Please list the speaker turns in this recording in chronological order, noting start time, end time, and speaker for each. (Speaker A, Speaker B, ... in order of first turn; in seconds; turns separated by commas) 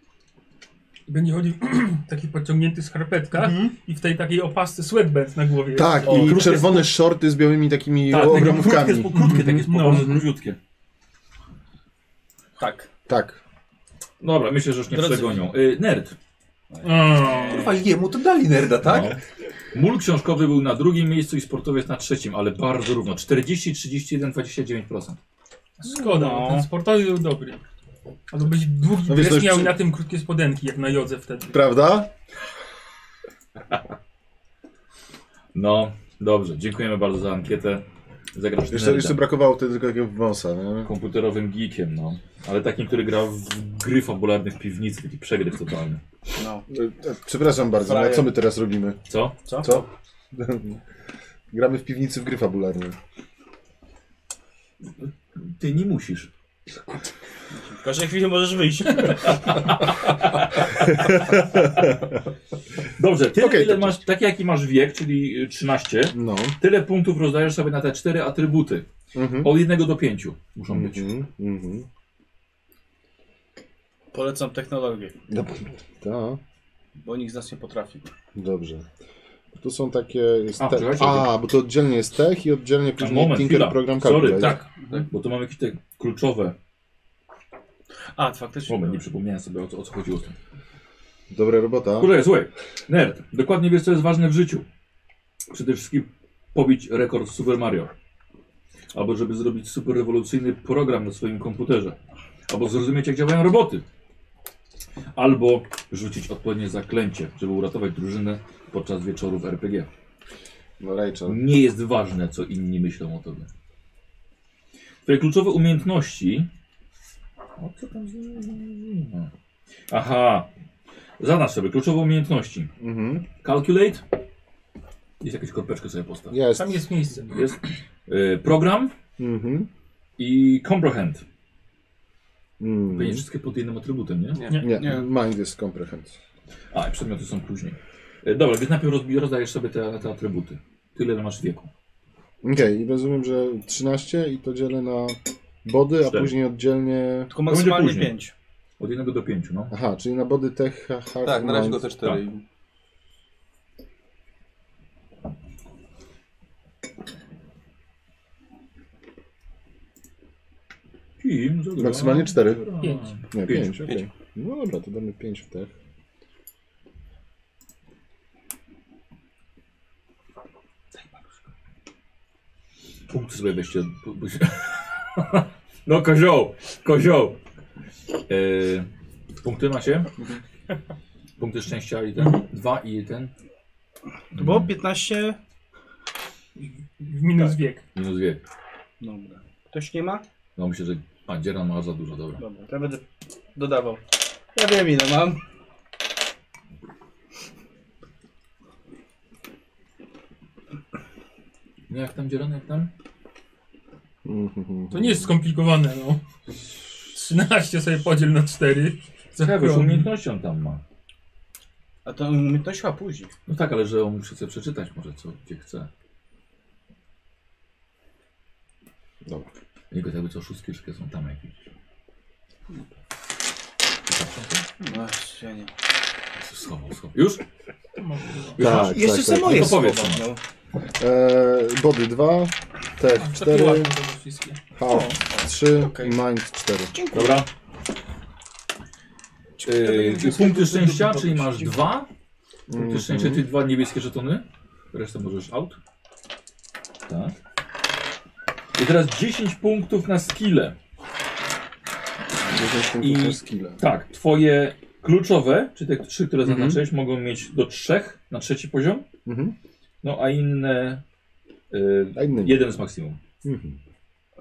Speaker A: 1.1-6.6, Speaker B: 3.3-3.7, Speaker C: 5.7-10.2, Speaker B: 6.0-6.9, Speaker D: 8.1-10.6, Speaker A: 9.1-10.2, Speaker B: 12.6-12.9, Speaker C: 13.1-13.4, Speaker D: 14.2-16.1, Speaker B: 14.9-15.4, Speaker B: 16.7-17.8, Speaker A: 16.8-17.7, Speaker E: 17.3-19.2, Speaker D: 18.8-19.2, Speaker D: 19.7-25.2, Speaker A: 25.8-27.6, Speaker B: 25.9-26.6, Speaker A: 28.3-31.6, Speaker C: 29.0-29.8, Speaker C: 31.5-32.1, Speaker D: 35.5-39.2, Speaker C: 38.7-40.9, Speaker D: 40.8-46.0, Speaker B: 46.4-46.6, Speaker C: 46.7-49.0, Speaker B: 47.8-48.3, Speaker D: 49.1-49.4, Speaker B: 49.5-49.9, Speaker C: 49.5-50.8, Speaker C: 51.5-53.0, Speaker D: 55.4-56.3, Speaker B: 57.5-59.8, Speaker D: 59.3-61.9, Speaker C: 60.9-62.1, Speaker D: 63.0-68.8, Speaker C: 63.3-64.0, Speaker C: 66.1-66.5, Speaker C: 69.1-69.5, Speaker D: 69.4-71.1, Speaker C: 70.7-71.9, Speaker B: 74.1-75.1, Speaker C: 75.3-76.4, Speaker B: 77.0-78.1, Speaker C: 78.3-78.8, Speaker C: 79.5-84.6, Speaker D: 80.6-81.3, Speaker D: 83.0-86.5, Speaker B: 88.1-89.0, Speaker D: 88.7-90.3, Speaker C: 91.3-92.1, Speaker D: 92.0-94.7, Speaker D: 95.5-97.9, Speaker D: 98.9-102.0, Speaker D: 102.5-103.8, Speaker D: 105.1-109.9, Speaker C: 110.8-111.4, Speaker D: 111.3-113.5, Speaker D: 115.0-116.5, Speaker D: 117.6-119.3, Speaker D: 119.9-120.5, Speaker D: 121.2-122.7, Speaker C: 122.8-123.2, Speaker D: 123.4-124.0, Speaker D: 125.2-126.4, Speaker C: 126.3-126.8, Speaker A: 126.5-127.5, Speaker D: 127.3-128.9, Speaker C: 129.2-129.7, Speaker D: 130.2-131.2, Speaker C: 132.6-133.2, Speaker D: 132.9-134.4, Speaker E: 134.4-134.7, Speaker C: 134.6-136.1, Speaker B: 134.7-135.0, Speaker D: 136.7-141.7, Speaker C: 142.4-147.3, Speaker D: 146.1-146.3, Speaker B: 147.3-148.3, Speaker D: 147.4-148.1, Speaker D: 148.8-149.7, Speaker C: 149.7-151.9, Speaker E: 151.2-152.4, Speaker D: 161.2-163.8, Speaker C: 161.8-162.6, Speaker A: 162.8-163.2, Speaker C: 163.3-165.7, Speaker D: 173.1-177.4, Speaker D: 178.3-178.9, Speaker D: 179.4-180.1, Speaker D: 181.4-183.3, Speaker D: 184.3-184.7, Speaker B: 184.3-185.4, Speaker A: 187.0-187.8, Speaker D: 187.9-188.4, Speaker B: 189.0-190.2, Speaker D: 190.6-192.4, Speaker B: 192.4-193.0, Speaker B: 193.5-194.0, Speaker B: 194.5-195.4, Speaker D: 201.9-202.9, Speaker C: 204.2-205.3, Speaker A: 204.9-206.2, Speaker A: 207.1-210.1, Speaker D: 209.4-210.8, Speaker B: 212.0-213.3, Speaker D: 213.5-215.9, Speaker D: 219.9-221.7, Speaker D: 224.1-224.6, Speaker B: 224.8-225.7, Speaker D: 226.4-227.4, Speaker A: 228.0-228.6, Speaker D: 228.6-230.3, Speaker C: 228.6-229.8, Speaker B: 228.6-230.4, Speaker C: 231.0-233.9, Speaker A: 233.1-234.6, Speaker C: 234.8-236.9, Speaker B: 234.8-236.1, Speaker B: 236.9-237.4, Speaker D: 237.1-237.5, Speaker B: 239.6-241.8, Speaker D: 239.6-242.1, Speaker C: 242.7-243.4, Speaker D: 242.7-245.8, Speaker D: 247.1-247.3, Speaker D: 248.7-250.8, Speaker C: 252.4-253.8, Speaker D: 253.0-259.1, Speaker C: 256.4-256.8, Speaker C: 259.2-259.5, Speaker D: 260.0-261.0, Speaker D: 261.7-263.2, Speaker C: 262.1-262.6, Speaker C: 263.4-263.8